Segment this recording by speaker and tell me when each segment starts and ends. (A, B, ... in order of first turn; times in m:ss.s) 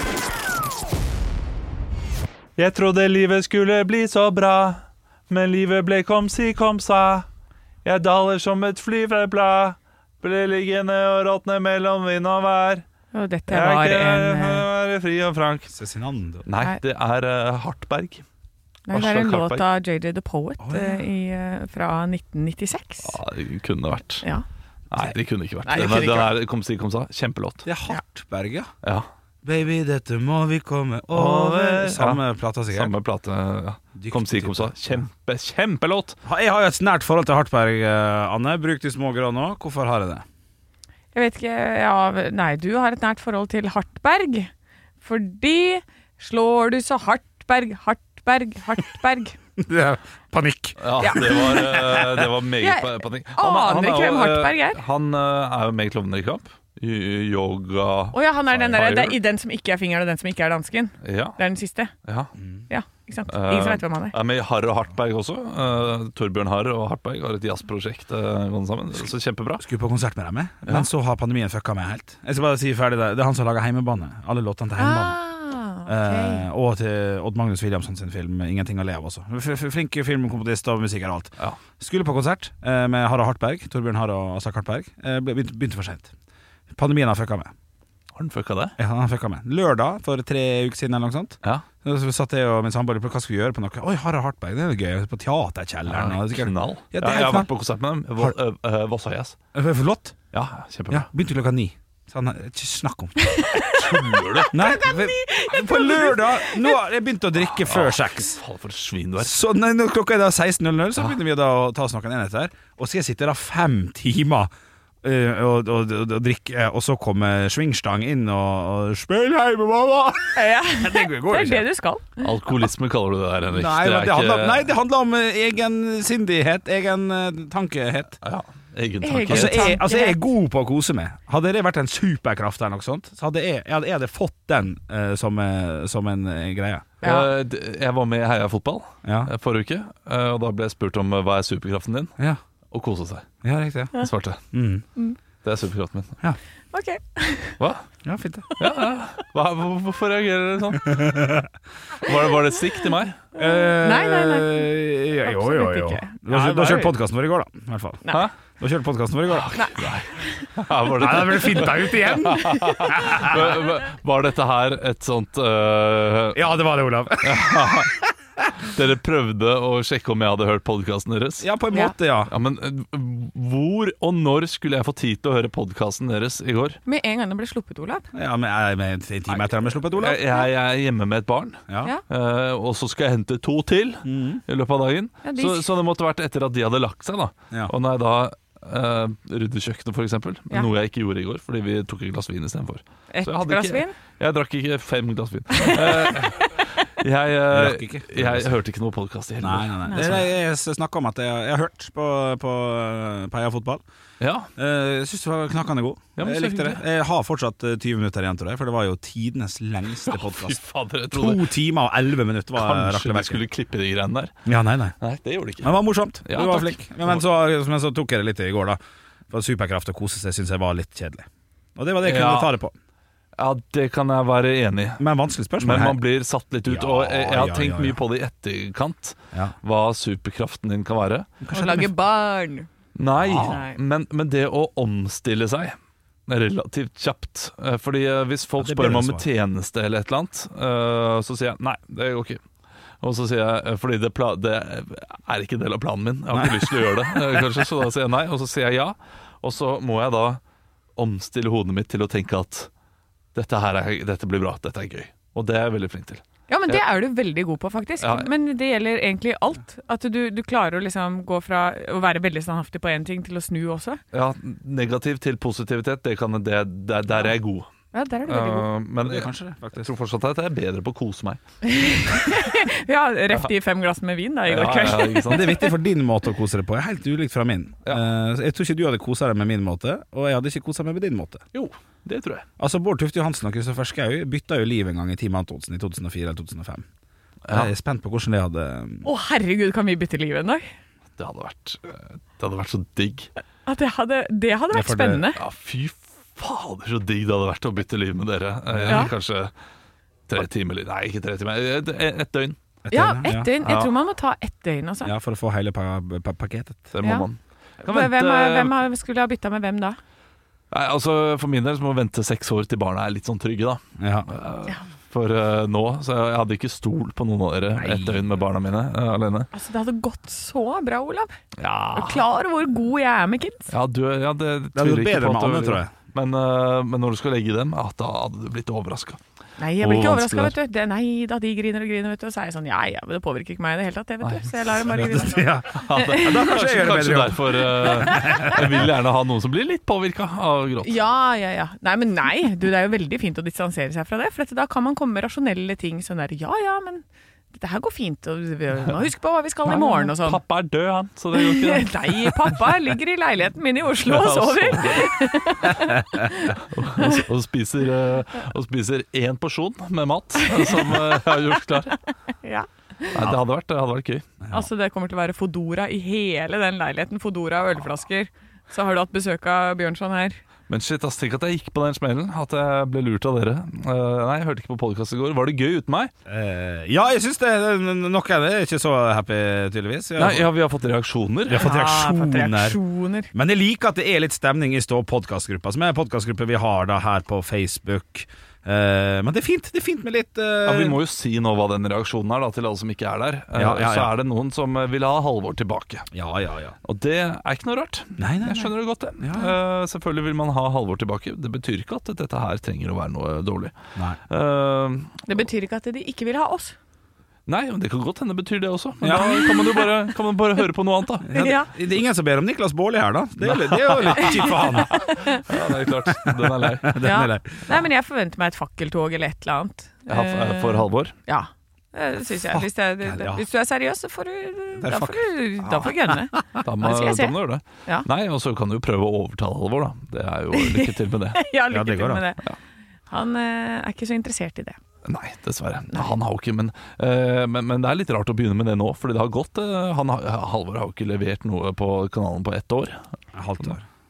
0:02.6-0:07.3 A
0:07.8-0:12.8 A
0:13.1-0:14.7 B
0:13.5-0:15.7 A
0:15.7-0:16.5 C
0:16.5-0:18.2 A
0:18.9-0:23.1 B
0:18.9-0:19.7 A
0:20.6-0:21.0 C
0:23.0-0:24.3 A
0:24.9-0:27.7 A
0:25.6-0:26.3 B
0:25.8-0:26.2 C
0:27.6-0:28.7 C
0:29.4-0:32.9 C
0:31.1-0:36.2 A
0:34.0-0:35.0 C
0:36.2-0:40.2 C
0:41.1-0:44.5 B
0:45.0-0:49.4 B
0:49.6-0:52.2 C
0:50.8-0:59.2 A
0:51.0-0:51.8 B
0:52.6-0:54.8 B
0:58.1-1:01.9 B
1:01.0-1:01.4 A
1:02.7-1:04.2 B
1:03.3-1:09.6 A
1:09.6-1:15.2 C
1:14.8-1:16.4 B
1:15.8-1:26.1 C
1:26.7-1:27.5 C
1:28.2-1:28.8 A
1:28.8-1:37.5 C
1:35.9-1:39.4 A
1:39.5-1:40.2 C
1:40.3-1:41.1 A
1:40.9-1:43.3 C
1:43.4-1:46.8 B
1:43.7-1:44.6 A
1:44.5-1:48.4 C
1:47.5-1:49.4 A
1:49.2-1:54.5 C
1:55.0-2:01.7 C
2:00.4-2:02.3 B
2:02.2-2:04.6 A
2:03.5-2:08.2 C
2:08.2-2:09.8 A
2:09.0-2:10.2 B
2:09.2-2:16.9 C
2:17.0-2:17.3 B
2:17.0-2:22.1 A
2:19.0-2:19.3 C
2:22.7-2:23.3 A
2:23.4-2:23.9 C
2:24.0-2:24.4 A
2:24.5-2:24.8 C
2:25.4-2:26.2 A
2:26.7-2:27.6 B
2:27.6-2:27.8 A
2:28.0-2:28.5 C
2:28.6-2:31.2 A
2:30.8-2:31.5 C
2:32.0-2:33.3 A
2:33.4-2:38.0 C
2:33.4-2:36.9 B
2:38.6-2:39.6 C
2:39.3-2:46.4 A
2:39.5-2:40.4 B
2:41.0-2:43.6 C
2:41.9-2:43.0 B
2:46.3-2:47.9 C
2:47.2-2:47.9 A
2:48.6-2:51.5 A
2:51.4-2:52.3 C
2:52.3-2:56.8 A
2:56.9-2:58.0 B
2:58.1-3:00.4 C
2:59.9-3:20.3 A
3:04.0-3:04.4 C
3:05.2-3:05.7 B
3:13.1-3:14.0 B
3:15.6-3:16.0 B
3:17.5-3:18.6 C
3:19.4-3:23.8 C
3:19.9-3:20.2 B
3:24.2-3:24.5 A
3:24.6-3:30.6 C
3:26.2-3:26.8 A
3:30.1-3:31.4 A
3:31.1-3:33.4 C
3:32.6-3:34.5 A
3:34.5-3:35.0 C
3:35.0-3:35.7 A
3:35.6-3:38.8 C
3:36.3-3:37.2 A
3:39.3-3:42.8 C
3:42.0-3:42.5 A
3:43.4-3:45.0 A
3:45.0-3:46.0 C
3:45.6-3:51.3 A
3:46.7-3:48.0 C
3:51.4-3:51.9 C
3:51.5-3:52.7 B
3:53.0-3:55.8 A
3:53.2-3:53.6 C
3:53.4-3:53.8 B
3:56.3-4:02.4 A
3:58.6-3:59.2 C
4:03.0-4:10.4 A
4:06.3-4:06.7 C
4:11.0-4:12.7 A
4:13.4-4:16.8 A
4:16.5-4:24.0 B
4:18.0-4:18.3 A
4:24.1-4:27.7 A
4:27.9-4:28.7 B
4:28.3-4:31.4 A
4:29.0-4:29.9 C
4:31.7-4:35.7 B
4:34.5-4:35.7 A
4:35.3-4:41.4 C
4:41.5-4:42.5 A
4:42.6-4:46.8 C
4:47.5-4:49.1 C
4:49.0-4:50.6 B
4:51.2-4:53.3 A
4:53.7-4:55.4 B
4:54.7-4:55.3 C
4:55.4-4:59.5 A
4:58.7-4:59.1 C
5:00.3-5:02.6 A
5:02.8-5:03.8 C
5:02.9-5:05.1 B
5:03.6-5:03.9 A
5:05.0-5:07.0 C
5:06.9-5:08.8 A
5:07.0-5:07.3 B
5:07.8-5:10.0 B
5:10.7-5:19.5 A
5:14.0-5:14.3 C
5:17.8-5:18.3 C
5:19.5-5:21.3 B
5:21.6-5:22.2 A
5:21.9-5:23.7 B
5:23.7-5:29.2 A
5:24.8-5:25.9 C
5:29.6-5:36.5 B
5:29.8-5:30.6 A
5:34.2-5:34.9 A
5:34.9-5:38.9 C
5:35.7-5:41.0 A
5:37.8-5:38.6 B
5:40.8-5:50.4 B
5:49.6-5:53.0 A
5:51.3-5:57.2 B
5:54.0-5:55.7 A
5:56.6-6:02.0 A
6:00.6-6:01.4 B
6:02.4-6:03.2 B
6:03.1-6:04.3 A
6:04.4-6:04.7 C
6:04.5-6:10.4 B
6:10.7-6:16.1 A
6:16.3-6:20.5 C
6:20.2-6:21.7 A
6:21.5-6:22.8 C
6:21.5-6:23.3 B
6:23.3-6:31.0 C
6:30.6-6:36.1 A
6:33.5-6:34.1 C
6:36.1-6:36.8 C
6:36.8-6:43.7 A
6:38.2-6:39.5 C
6:44.3-6:45.4 A
6:45.3-6:46.8 B
6:47.5-6:51.4 A
6:49.0-6:49.5 C
6:49.5-6:49.8 B
6:51.2-6:55.4 C
6:51.3-6:51.7 B
6:53.4-6:57.0 A
6:55.0-6:55.4 B
6:56.0-6:57.8 C
6:57.0-7:07.3 B
7:00.1-7:01.1 A
7:02.5-7:03.4 C
7:04.8-7:06.6 C
7:06.6-7:11.4 A
7:10.6-7:12.4 B
7:11.7-7:12.3 C
7:13.1-7:14.8 B
7:15.0-7:23.0 A
7:23.3-7:23.8 C